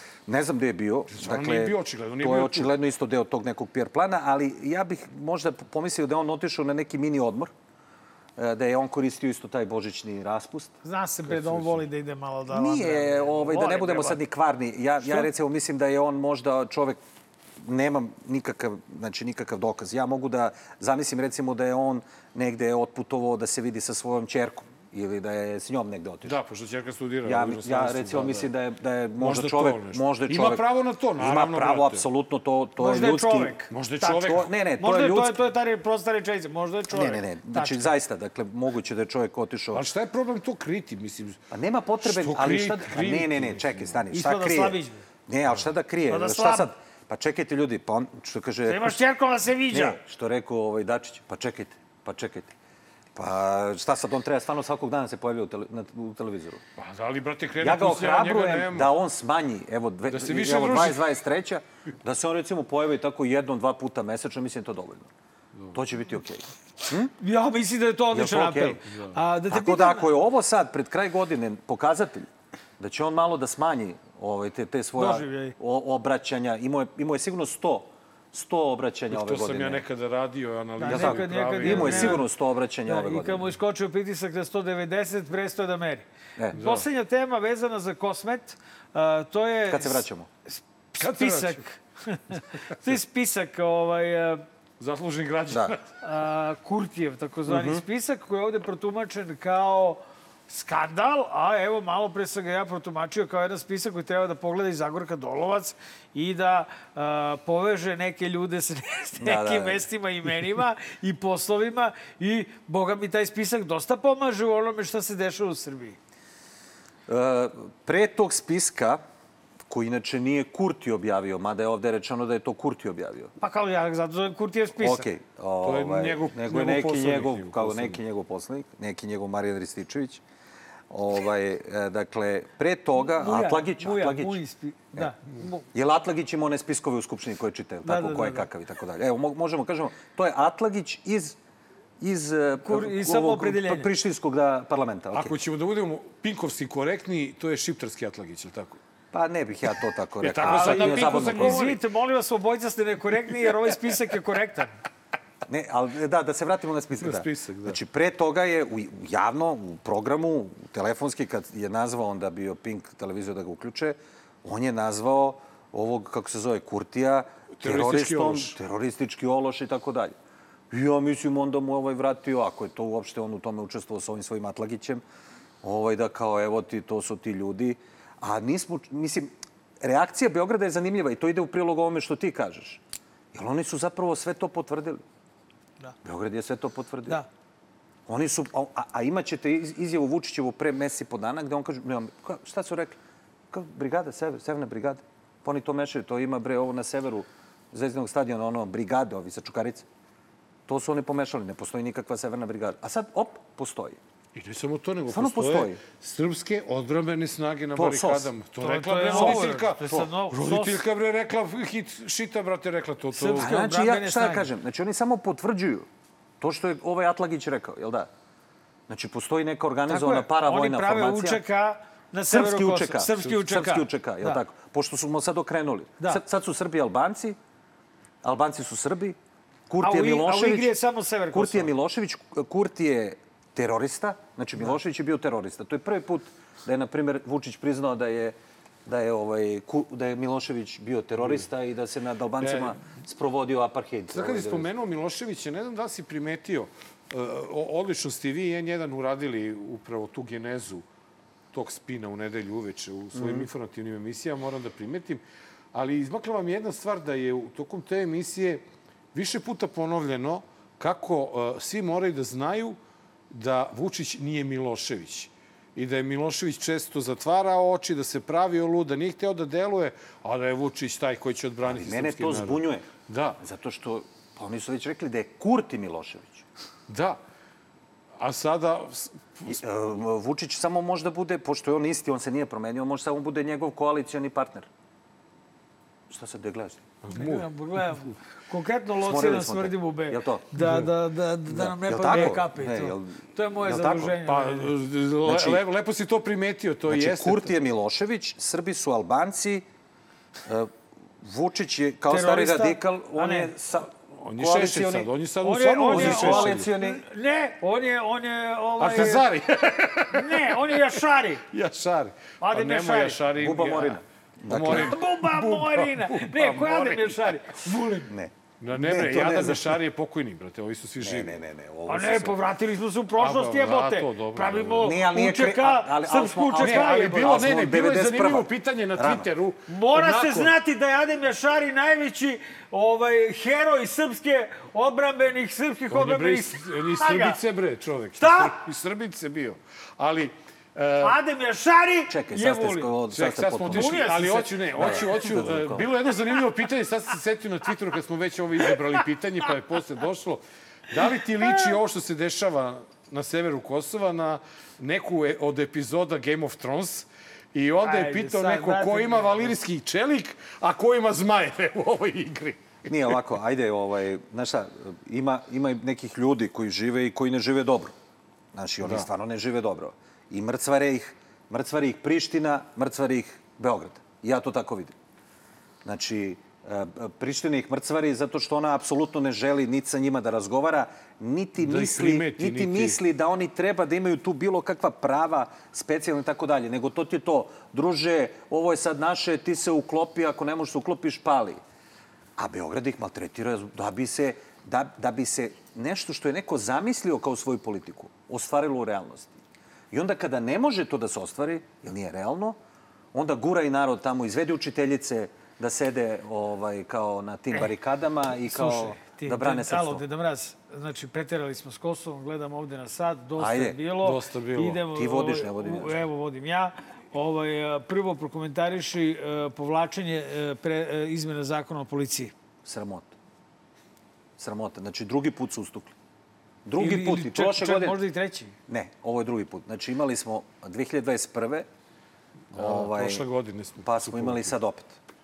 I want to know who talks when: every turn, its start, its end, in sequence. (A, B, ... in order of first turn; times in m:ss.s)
0:00.3-0:07.5 A
0:01.1-0:02.7 B
0:08.4-0:10.8 A
0:10.8-0:14.2 C
0:11.3-0:11.8 B
0:12.5-0:17.0 A
0:17.6-0:26.4 A
0:26.2-0:28.5 B
0:27.2-0:35.4 A
0:29.2-0:32.0 B
0:32.8-0:34.2 C
0:33.7-0:34.5 B
0:34.8-0:37.9 C
0:36.9-0:39.9 A
0:39.7-0:41.4 B
0:41.5-0:49.0 A
0:42.0-0:44.0 B
0:44.1-0:45.0 C
0:46.1-0:46.7 C
0:48.6-0:50.0 C
0:49.7-0:52.5 A
0:53.2-0:56.6 A
0:56.8-0:58.9 B
0:57.6-1:05.1 A
1:00.1-1:01.1 B
1:05.7-1:07.1 A
1:07.2-1:10.1 C
1:08.1-1:08.8 A
1:08.9-1:09.2 B
1:09.5-1:12.3 A
1:12.8-1:19.8 A
1:15.0-1:15.5 C
1:19.1-1:22.2 B
1:20.8-1:22.3 C
1:20.8-1:23.5 A
1:22.9-1:34.4 C
1:26.6-1:26.8 B
1:29.7-1:30.3 A
1:31.0-1:31.6 B
1:34.8-1:35.9 B
1:35.5-1:35.8 A
1:36.0-1:56.0 C
1:37.5-1:37.8 A
1:49.2-1:49.9 A
1:57.1-1:59.0 A
1:59.7-2:03.3 A
2:03.4-2:05.1 C
2:04.8-2:10.2 A
2:05.6-2:08.0 B
2:10.9-2:14.4 A
2:13.0-2:15.6 C
2:15.7-2:21.4 A
2:17.8-2:18.5 C
2:22.0-2:25.4 A
2:22.6-2:23.9 C
2:25.1-2:28.8 B
2:29.1-2:31.7 A
2:30.2-2:31.8 B
2:30.4-2:34.7 C
2:35.5-2:50.1 A
2:37.0-2:37.8 B
2:47.6-2:48.6 B
2:50.7-2:55.0 A
2:55.6-3:02.8 A
3:03.3-3:05.0 A
3:06.0-3:07.2 A
3:08.1-3:13.0 A
3:13.5-3:19.8 A
3:20.7-3:24.0 A
3:24.4-3:33.5 B
3:25.1-3:25.8 A
3:27.7-3:28.3 A
3:28.6-3:30.8 C
3:29.0-3:30.1 A
3:33.1-3:34.5 C
3:33.3-3:35.8 A
3:36.4-3:38.1 A
3:38.9-3:41.4 A
3:39.9-3:44.4 C
3:42.2-3:47.4 A
3:48.2-3:49.2 A
3:49.7-3:50.8 A
3:49.8-3:51.7 C
3:51.3-3:58.3 A
3:58.8-4:04.7 A
4:01.2-4:01.4 B
4:02.4-4:02.8 B
4:04.1-4:10.8 B
4:11.5-4:15.2 B
4:13.1-4:13.5 A
4:15.7-4:18.6 B
4:19.1-4:22.8 B
4:23.3-4:33.4 B
4:31.6-4:36.4 A
4:36.9-4:37.2 B
4:38.2-4:39.6 B
4:39.4-4:44.7 A
4:46.1-4:46.9 A
4:47.0-4:47.5 B
4:47.1-4:54.7 C
4:48.9-4:50.5 A
4:50.6-4:50.9 B
4:51.5-4:54.2 A
4:52.1-4:52.4 B
4:54.1-4:57.5 B
4:55.2-4:55.6 A
4:56.9-4:59.6 A
5:01.2-5:05.1 A
5:02.1-5:03.5 C
5:04.1-5:06.7 B
5:05.4-5:09.3 C
5:05.8-5:07.0 A
5:08.8-5:10.7 B
5:10.1-5:11.4 C
5:11.5-5:17.5 B
5:12.4-5:13.2 C
5:13.3-5:15.0 A
5:14.7-5:18.1 C
5:18.1-5:19.8 A
5:18.6-5:21.4 B
5:21.0-5:22.4 A
5:21.9-5:27.4 C
5:23.2-5:24.9 B
5:24.8-5:29.3 A
5:26.6-5:30.5 B
5:29.7-5:37.4 C
5:35.9-5:41.2 B
5:38.2-5:38.5 C
5:41.0-5:42.9 C
5:42.1-5:44.1 A
5:43.1-6:03.2 B
5:43.7-5:45.2 C
5:44.7-5:45.9 A
5:57.8-5:59.6 C
6:02.8-6:07.9 A
6:08.5-6:14.9 A
6:15.8-6:31.6 A
6:21.6-6:23.0 B
6:32.4-6:39.4 A
6:39.9-6:42.6 A
6:43.1-6:50.0 A
6:48.5-7:02.3 C
6:53.4-6:53.8 A
6:54.0-6:54.8 B
6:54.9-6:56.0 A
7:02.6-7:03.1 A
7:04.4-7:05.9 A
7:06.6-7:08.0 A
7:06.8-7:08.5 C
7:08.7-7:11.7 A
7:12.5-7:13.2 A
7:12.5-7:14.5 B
7:13.8-7:15.0 A